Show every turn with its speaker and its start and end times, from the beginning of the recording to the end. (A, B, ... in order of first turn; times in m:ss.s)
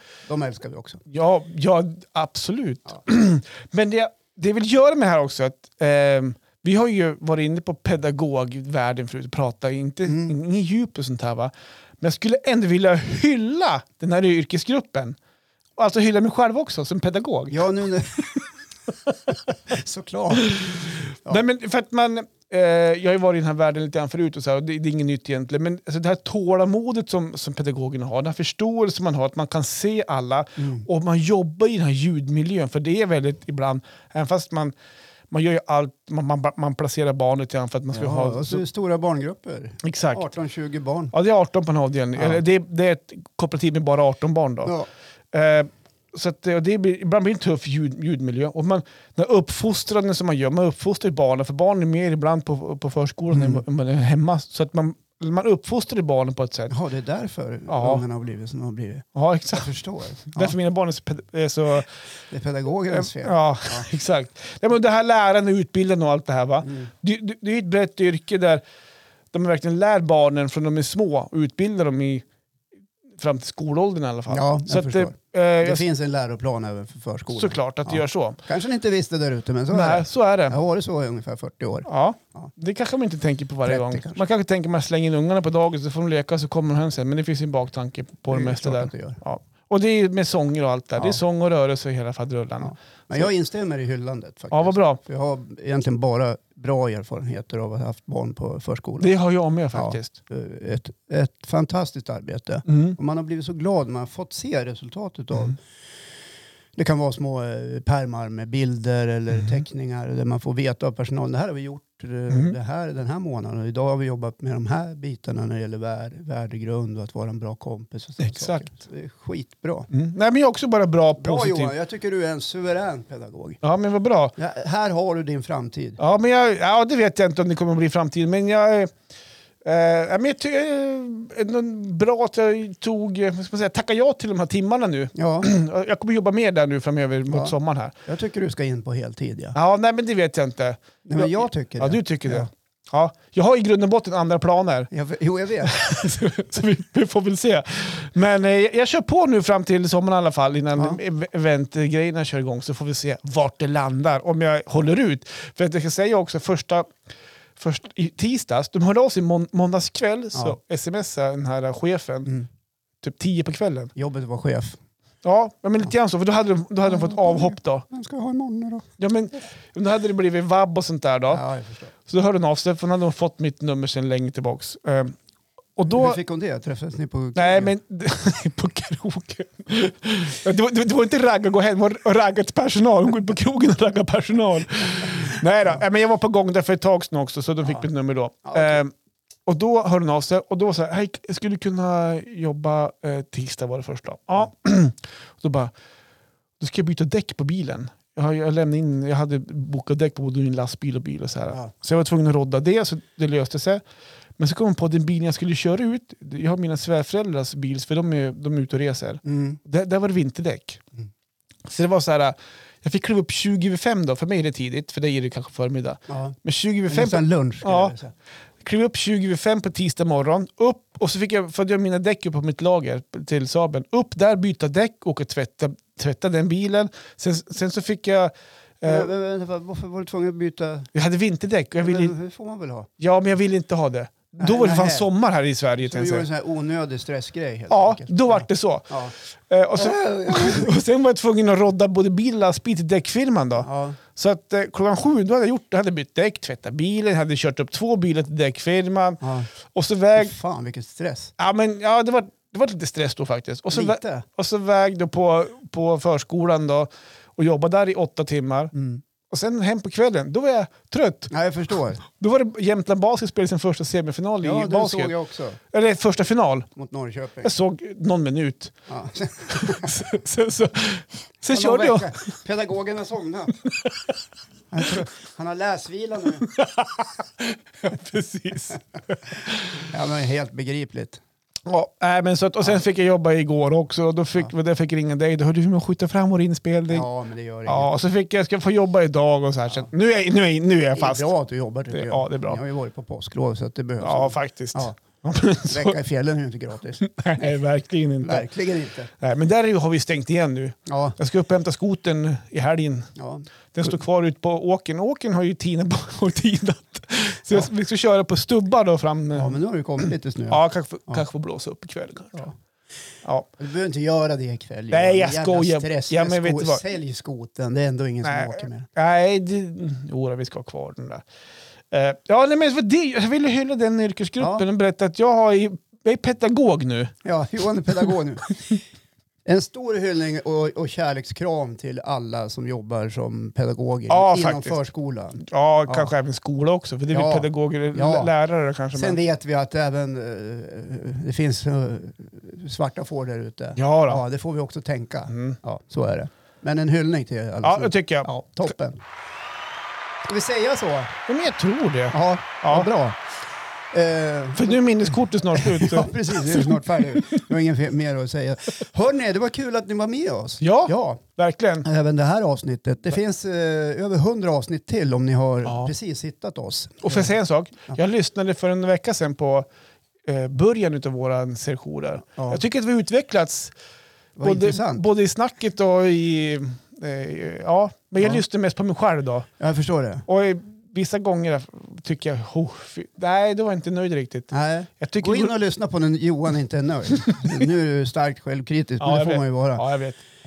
0:00.3-0:01.0 A
0:01.1-0:15.2 B
0:10.0-0:10.3 A
0:15.8-0:17.6 B
0:17.5-0:18.4 A
0:19.7-0:21.4 A
0:20.4-0:34.7 B
0:30.6-0:30.8 A
0:35.3-0:38.6 B
0:37.9-0:41.1 A
0:39.8-0:40.2 B
0:41.1-0:44.7 B
0:42.2-0:42.4 A
0:44.6-0:44.9 A
0:45.3-0:56.7 B
0:53.3-0:53.6 A
0:56.7-1:00.5 A
0:57.7-0:58.0 B
0:59.1-0:59.7 B
1:00.3-1:01.9 B
1:02.3-1:03.9 A
1:02.9-1:08.6 B
1:06.6-1:06.9 A
1:09.3-1:12.2 B
1:13.2-1:15.8 B
1:14.3-1:22.5 A
1:17.3-1:18.4 B
1:19.7-1:20.6 B
1:21.9-1:33.3 B
1:23.6-1:24.2 A
1:28.3-1:29.2 A
1:32.6-1:39.1 A
1:34.5-1:35.0 B
1:39.0-1:40.2 B
1:39.7-1:45.6 A
1:42.7-1:43.0 B
1:46.8-1:59.9 A
1:58.2-1:58.7 B
1:59.9-2:01.7 B
2:01.2-2:03.6 A
2:03.6-2:04.3 B
2:04.4-2:06.0 A
2:06.0-2:08.9 B
2:09.6-2:17.9 B
2:15.1-2:15.5 A
2:17.3-2:17.5 A
2:18.0-2:19.5 A
2:19.5-2:24.9 B
2:21.0-2:22.5 A
2:24.9-2:25.8 A
2:25.6-2:36.9 B
2:30.7-2:31.0 A
2:37.6-2:42.3 B
2:43.0-2:43.9 B
2:44.0-2:44.8 A
2:45.2-2:47.8 B
2:46.8-2:48.9 A
2:49.0-2:51.4 B
2:51.3-2:51.9 A
2:52.0-2:55.2 B
2:55.8-2:56.2 B
2:55.9-2:57.7 A
2:57.4-3:08.9 B
3:08.4-3:08.8 A
3:09.4-3:15.7 B
3:16.6-3:23.8 B
3:24.4-3:30.8 B
3:29.2-3:29.6 A
3:31.6-3:37.9 B
3:36.1-3:36.4 A
3:36.9-3:38.1 A
3:38.6-3:49.1 B
3:48.8-3:50.9 A
3:50.9-3:52.1 B
3:51.8-3:52.9 A
3:53.0-3:56.2 B
3:54.4-3:55.1 A
3:55.8-3:59.1 A
3:57.7-4:10.3 B
3:59.7-4:00.7 A
4:03.6-4:04.0 A
4:09.2-4:09.5 A
4:10.2-4:11.3 A
4:11.4-4:18.7 B
4:13.7-4:14.2 A
4:18.7-4:19.0 A
4:19.3-4:21.3 B
4:21.3-4:22.0 A
4:22.0-4:25.1 B
4:24.4-4:25.6 A
4:25.7-4:26.7 B
4:26.7-4:27.5 A
4:27.4-4:28.7 B
4:28.9-4:30.0 A
4:29.5-4:32.1 B
4:31.5-4:33.6 A
4:33.6-4:34.1 B
4:34.7-4:36.5 A
4:36.4-4:39.9 B
4:39.8-4:41.2 A
4:41.6-4:47.1 B
4:46.9-4:47.9 A
4:47.6-4:51.3 B
4:50.9-4:55.0 A
4:51.9-4:52.6 B
4:54.0-4:56.0 B
4:55.6-4:57.6 A
4:57.0-4:58.5 B
4:58.2-4:59.1 A
4:59.2-5:03.1 B
5:00.8-5:01.2 A
5:03.2-5:03.9 A
5:03.7-5:12.4 B
5:09.3-5:11.2 A
5:13.6-5:18.9 A
5:14.9-5:16.8 B
5:18.2-5:21.2 B
5:21.9-5:27.1 B
5:24.4-5:24.6 A
5:27.2-5:28.8 A
5:29.4-5:36.1 A
5:34.1-5:34.8 B
5:35.4-5:39.2 B
5:37.1-5:38.3 A
5:38.9-5:49.0 A
5:43.8-5:44.2 B
5:45.3-5:45.6 B
5:47.6-5:48.3 B
5:50.2-5:51.2 A
5:51.3-5:52.9 B
5:52.1-5:53.2 A
5:53.9-6:01.2 A
5:54.6-5:57.3 B
6:00.6-6:01.8 B
6:01.8-6:07.3 A
6:05.6-6:05.9 B
6:07.0-6:09.7 B
6:10.2-6:13.7 B
6:12.4-6:12.6 A
6:14.4-6:15.0 A
6:14.4-6:19.5 B
6:19.6-6:20.3 A
6:20.3-6:25.5 B
6:24.5-6:29.8 A
6:27.1-6:27.5 B
6:29.0-6:30.2 B